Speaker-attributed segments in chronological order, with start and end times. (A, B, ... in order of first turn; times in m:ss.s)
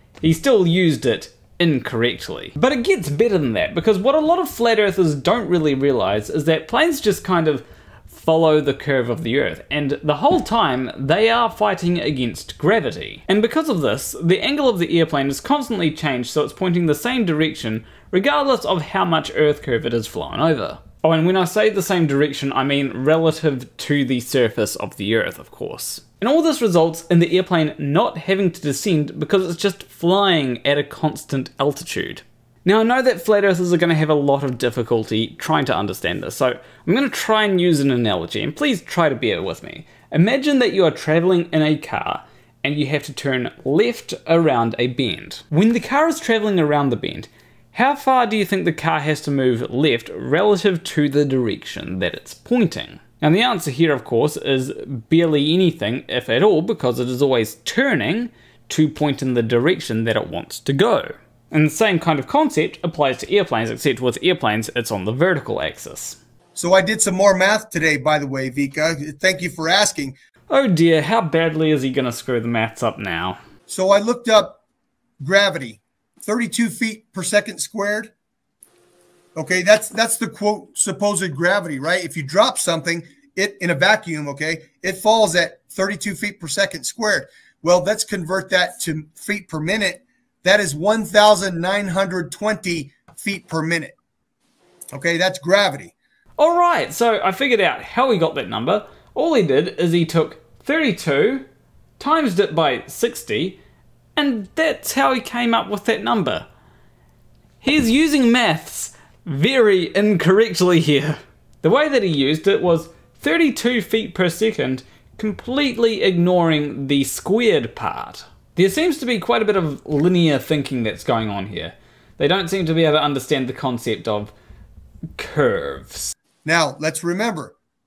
0:00.2-1:06.2 A
1:06.6-1:10.2 B
1:10.5-1:13.4 A
1:13.7-1:14.6 B
1:15.2-1:18.1 B
1:19.4-1:33.9 B
1:34.9-1:35.9 B
1:36.4-1:41.4 A
1:42.0-1:43.6 A
1:44.2-1:46.5 A
1:47.6-2:04.3 A
2:05.2-2:06.1 A
2:06.4-2:07.5 B